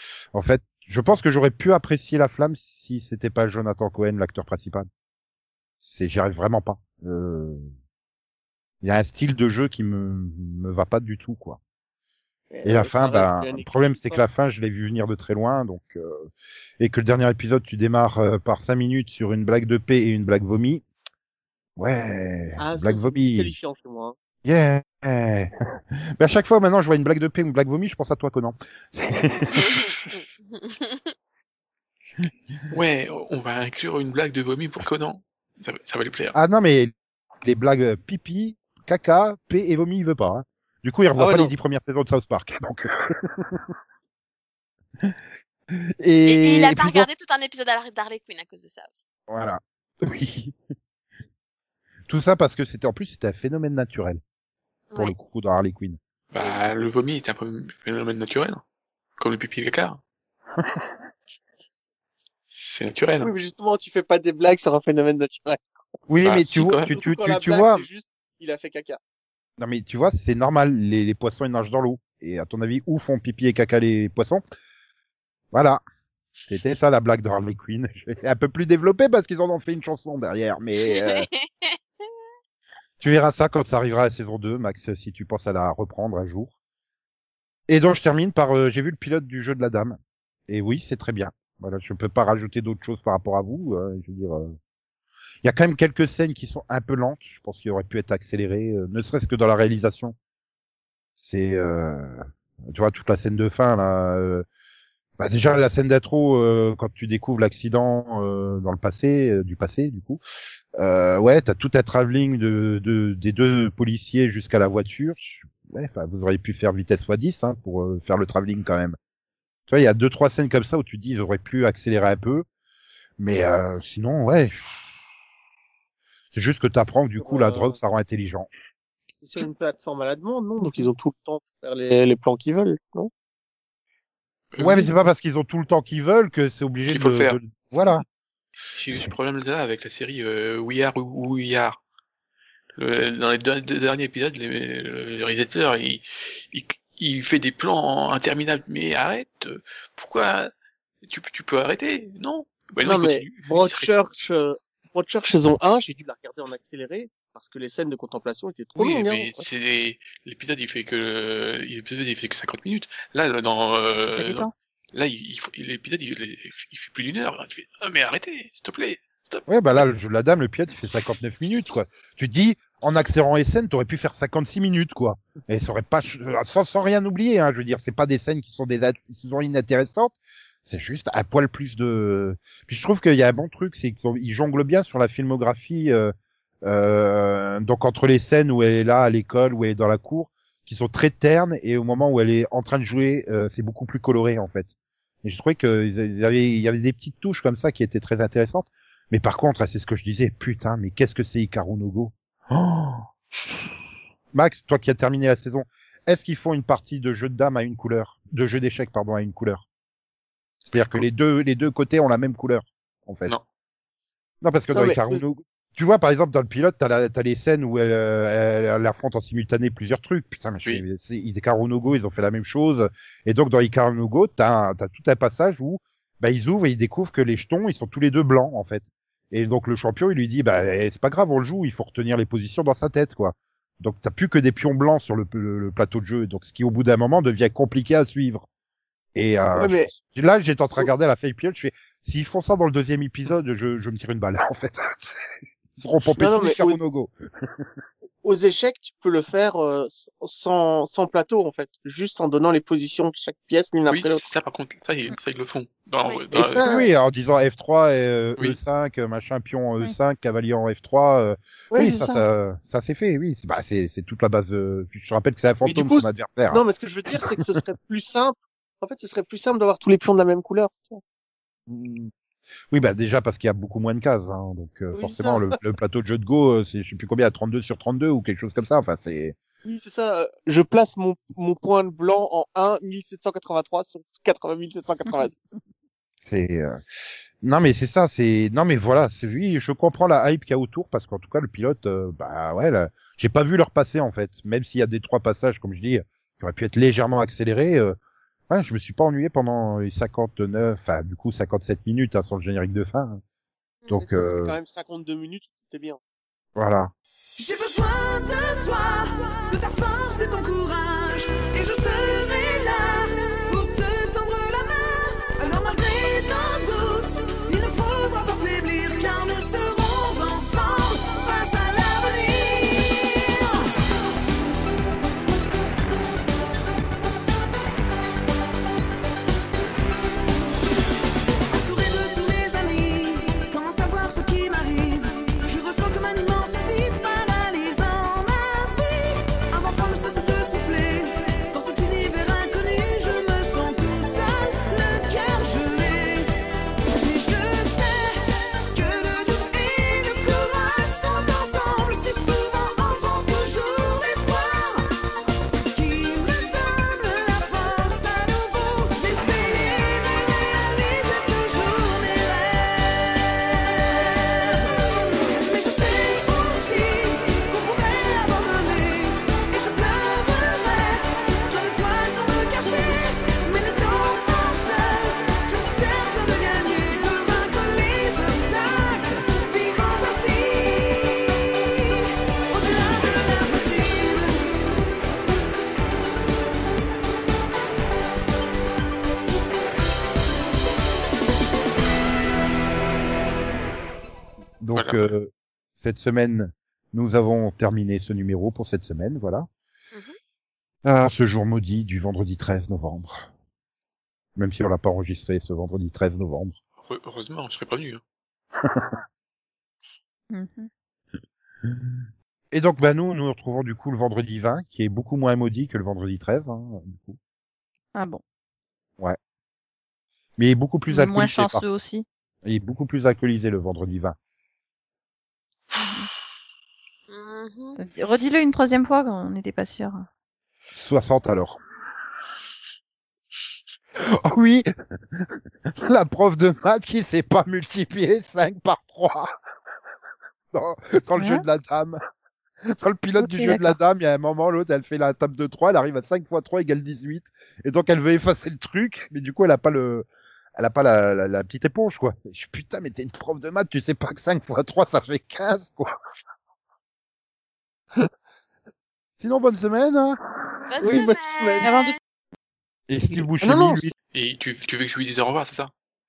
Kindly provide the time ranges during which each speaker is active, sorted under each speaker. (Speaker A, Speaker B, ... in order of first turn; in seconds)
Speaker A: 0.3-4.9, 5.8-7.7, 8.8-11.6, 12.7-20.8, 21.8-23.5, 24.4-30.0, 36.3-43.6, 46.0-47.1, 49.3-50.6, 52.1-54.2, 55.0-56.0, 66.1-67.9, 69.6-74.4, 75.5-75.8, 76.5-81.3, 83.0-86.5, 87.7-94.6, 95.4-100.2, 101.2-104.5, 105.2-110.2, 110.8-119.0, 119.7-122.5, 123.2-124.7, 126.3-128.5, 134.6-138.1, 169.5-180.2, 180.7-194.7, 195.2-203.1, 204.3-209.6, 210.6-213.3, 214.4-238.5, 239.2-245.2, 245.8-247.7, 256.6-266.6, 271.7-272.1, 272.7-279.4, 286.3-286.8, 287.4-298.0, 298.5-303.2, 303.9-304.6, 306.6-306.9, 394.6-399.5, 400.9-403.2, 404.4-406.6, 408.6-409.0, 411.6-411.9, 412.5-417.2, 420.4-421.6, 422.4-424.2, 430.7-431.6, 434.0-439.3, 440.5-442.0, 442.7-455.9, 459.2-461.0, 462.9-463.9
Speaker B: 12.5-14.2, 22.6-24.1, 41.2-41.5, 63.2-65.7, 67.0-69.0, 126.9-127.8, 129.2-133.1, 152.8-159.4, 214.7-215.2, 239.5-239.9, 246.2-246.8, 248.2-254.2, 256.3-256.9, 261.7-262.2, 265.6-271.0, 274.9-275.5, 279.6-285.4, 303.9-306.0, 460.8-461.7, 463.0-463.9
Speaker C: 29.5-31.1, 46.2-49.0, 80.9-81.8, 427.1-427.8, 460.7-462.0
Speaker D: 32.7-36.4, 56.3-58.6, 59.2-60.0, 62.5-63.3, 66.2-67.0, 134.5-134.9, 136.9-137.4, 138.7-141.8, 142.8-150.5, 151.0-154.1, 158.8-169.9, 210.8-211.1, 253.9-256.7, 394.8-395.1, 406.8-408.0, 464.1-465.7
Speaker E: 164.1-164.5, 410.3-410.7, 417.9-418.2, 420.9-422.1, 425.8-426.1, 427.8-430.1, 441.2-441.4, 443.2-443.8, 461.6-462.0
Speaker F: 307.4-323.8, 331.5-346.4, 347.0-381.9, 382.5-384.6